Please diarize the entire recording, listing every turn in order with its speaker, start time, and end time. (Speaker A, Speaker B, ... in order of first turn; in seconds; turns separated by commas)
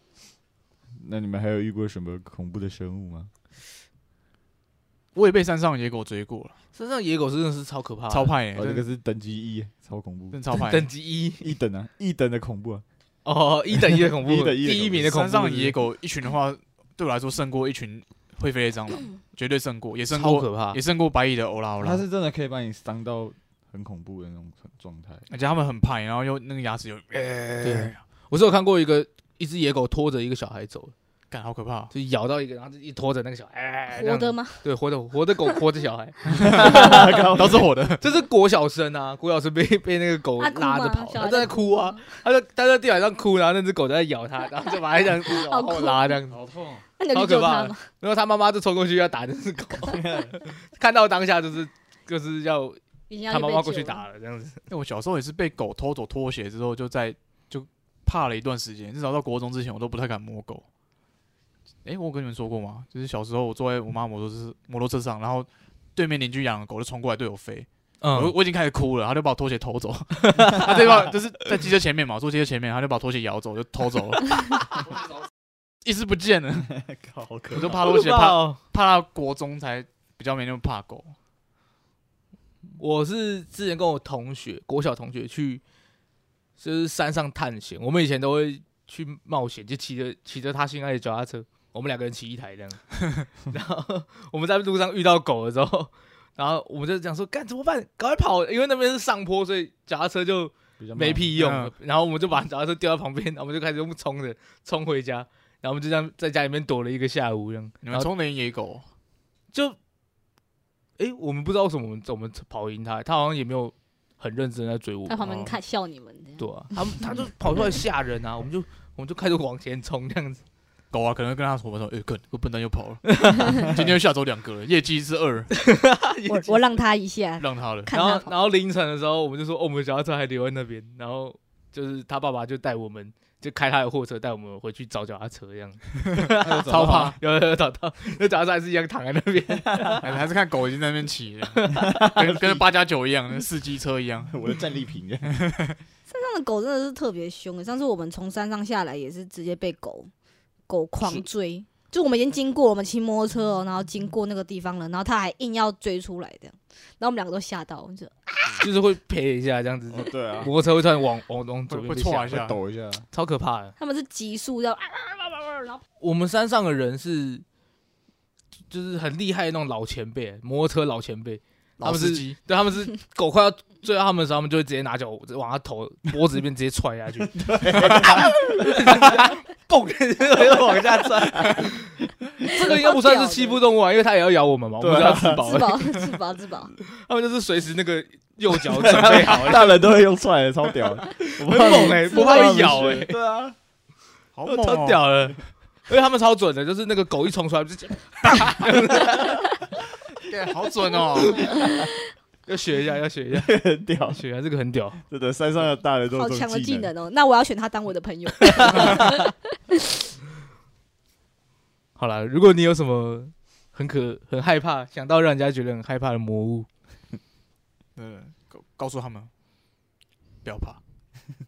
Speaker A: 1.0-3.3, Speaker B: 5.1-6.5, Speaker C: 6.7-8.3, Speaker B: 8.1-8.8, Speaker A: 8.5-10.4, Speaker B: 10.3-10.9, Speaker C: 10.6-11.5, Speaker A: 11.4-12.8, Speaker C: 13.2-15.8, Speaker A: 13.9-15.2, Speaker B: 15.1-22.0, Speaker C: 20.1-20.8, Speaker A: 21.8-25.2, Speaker B: 25.3-28.0, Speaker C: 27.6-30.9, Speaker B: 31.3-31.9, Speaker C: 31.9-37.1, Speaker D: 33.9-34.6, Speaker B: 36.3-38.0, Speaker A: 36.3-37.7, Speaker C: 38.0-46.4, Speaker D: 40.4-42.2, Speaker D: 45.3-46.2, Speaker A: 46.3-46.8, Speaker D: 47.0-47.9, Speaker C: 47.1-54.6, Speaker A: 49.8-50.4, Speaker D: 53.1-54.0, Speaker B: 54.7-60.6, Speaker B: 61.8-74.8, Speaker C: 68.0-68.4, Speaker C: 70.2-71.1, Speaker B: 75.8-76.8, Speaker A: 76.7-77.8, Speaker B: 77.5-81.1, Speaker C: 77.7-78.6, Speaker C: 82.8-85.6, Speaker C: 86.6-108.1, Speaker A: 100.8-101.3, Speaker B: 101.3-101.7, Speaker B: 107.8-108.8, Speaker C: 109.5-109.8, Speaker C: 111.0-115.2, Speaker D: 115.1-117.2, Speaker B: 115.2-115.5, Speaker C: 116.4-120.4, Speaker B: 120.9-125.5, Speaker C: 123.1-123.5, Speaker C: 125.5-126.6, Speaker D: 126.3-128.4, Speaker B: 127.4-127.9, Speaker C: 127.9-140.1, Speaker A: 136.4-137.2, Speaker B: 136.6-137.2, Speaker B: 140.0-144.4, Speaker C: 141.6-141.9, Speaker A: 141.8-142.6, Speaker A: 144.3-145.3, Speaker B: 145.3-145.8, Speaker D: 146.1-150.1, Speaker D: 150.7-158.7, Speaker C: 151.0-151.3, Speaker C: 158.6-162.4, Speaker A: 159.9-160.5, Speaker B: 161.7-162.6, Speaker A: 162.3-163.1, Speaker C: 163.1-163.8, Speaker D: 163.8-165.8, Speaker C: 166.0-167.4, Speaker C: 168.7-181.9, Speaker B: 171.8-172.4, Speaker A: 177.4-179.2, Speaker A: 180.4-181.7, Speaker D: 182.5-183.6, Speaker C: 182.5-185.9, Speaker A: 184.8-185.6, Speaker D: 185.4-186.7, Speaker C: 186.8-189.8, Speaker A: 188.7-193.6, Speaker C: 191.1-193.2, Speaker D: 192.1-192.7, Speaker B: 194.4-195.1, Speaker C: 194.5-199.5, Speaker B: 200.2-201.5, Speaker D: 201.3-201.9, Speaker C: 202.5-203.6, Speaker A: 203.3-204.2, Speaker C: 204.1-205.0, Speaker A: 205.1-206.9, Speaker D: 206.1-209.3, Speaker C: 208.6-208.9, Speaker C: 212.0-216.7, Speaker B: 218.0-219.3, Speaker B: 220.4-220.8